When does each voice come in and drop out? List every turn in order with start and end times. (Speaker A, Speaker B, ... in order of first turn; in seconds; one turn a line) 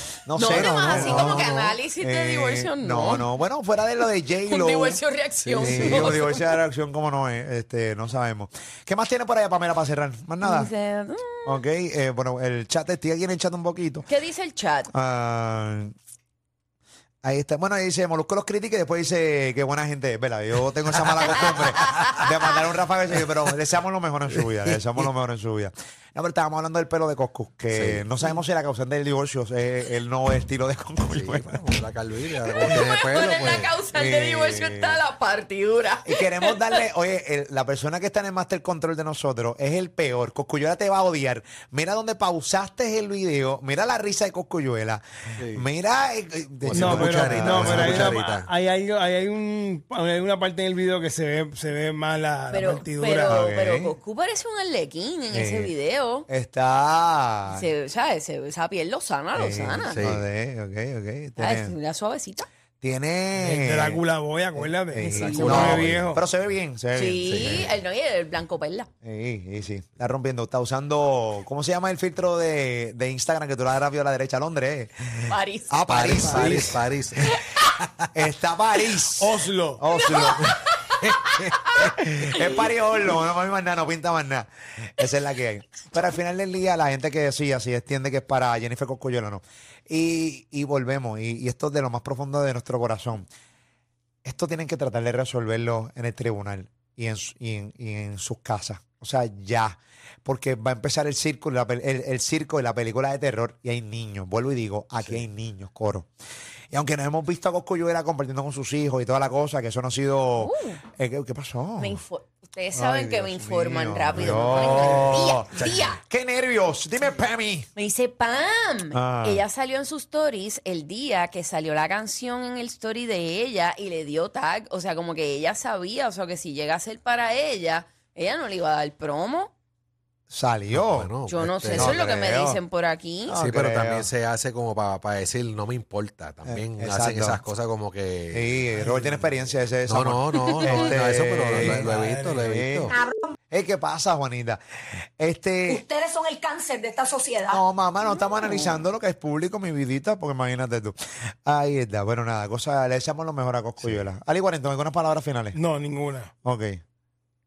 Speaker A: 0.2-5.0
Speaker B: 0.3-3.3
Speaker C: 0.9-1.3
Speaker B: 4.3-6.5
Speaker C: 5.4-6.2
Speaker A: 5.6-10.7
Speaker B: 10.4-11.6
Speaker A: 11.4-14.1
Speaker B: 14.1-14.9
Speaker A: 14.9-15.9
Speaker A: 17.2-31.6
Speaker C: 24.3-25.0
Speaker C: 27.7-28.3
Speaker C: 31.1-33.7
Speaker B: 32.5-36.8
Speaker A: 33.9-35.0
Speaker A: 36.0-48.2
Speaker C: 45.4-45.7
Speaker C: 46.6-48.5
Speaker D: 46.7-53.4
Speaker B: 52.5-56.3
Speaker A: 53.2-53.9
Speaker A: 55.3-55.7
Speaker A: 56.3-57.7
Speaker B: 57.5-60.0
Speaker A: 59.3-61.7
Speaker C: 59.9-60.2
Speaker B: 61.4-62.5
Speaker A: 62.8-64.0
Speaker D: 63.3-66.2
Speaker A: 64.5-67.7
Speaker B: 65.0-65.8
Speaker C: 65.2-66.0
Speaker B: 66.9-68.9
Speaker A: 69.0-76.8
Speaker B: 75.3-75.8
Speaker C: 75.9-78.0
Speaker A: 78.1-80.6
Speaker D: 79.2-79.8
Speaker B: 80.0-81.9
Speaker A: 81.7-93.3
Speaker A: 94.2-106.1
Speaker A: 106.7-112.0
Speaker B: 110.4-110.8
Speaker B: 111.8-116.0
Speaker A: 112.7-117.7
Speaker C: 115.5-115.9
Speaker B: 117.8-129.5
Speaker A: 118.9-119.4
Speaker A: 130.3-131.1
Speaker C: 130.7-131.9
Speaker B: 131.2-133.3
Speaker A: 131.7-132.6
Speaker A: 133.3-134.1
Speaker C: 133.3-143.0
Speaker A: 136.4-137.4
Speaker A: 138.3-143.0
Speaker B: 140.3-140.8
Speaker D: 141.6-142.5
Speaker E: 142.9-143.3
Speaker A: 143.5-144.6
Speaker A: 145.2-145.8
Speaker E: 145.7-147.6
Speaker A: 147.5-155.6
Speaker B: 148.4-148.7
Speaker C: 153.8-154.1
Speaker D: 155.5-156.3
Speaker A: 156.4-156.8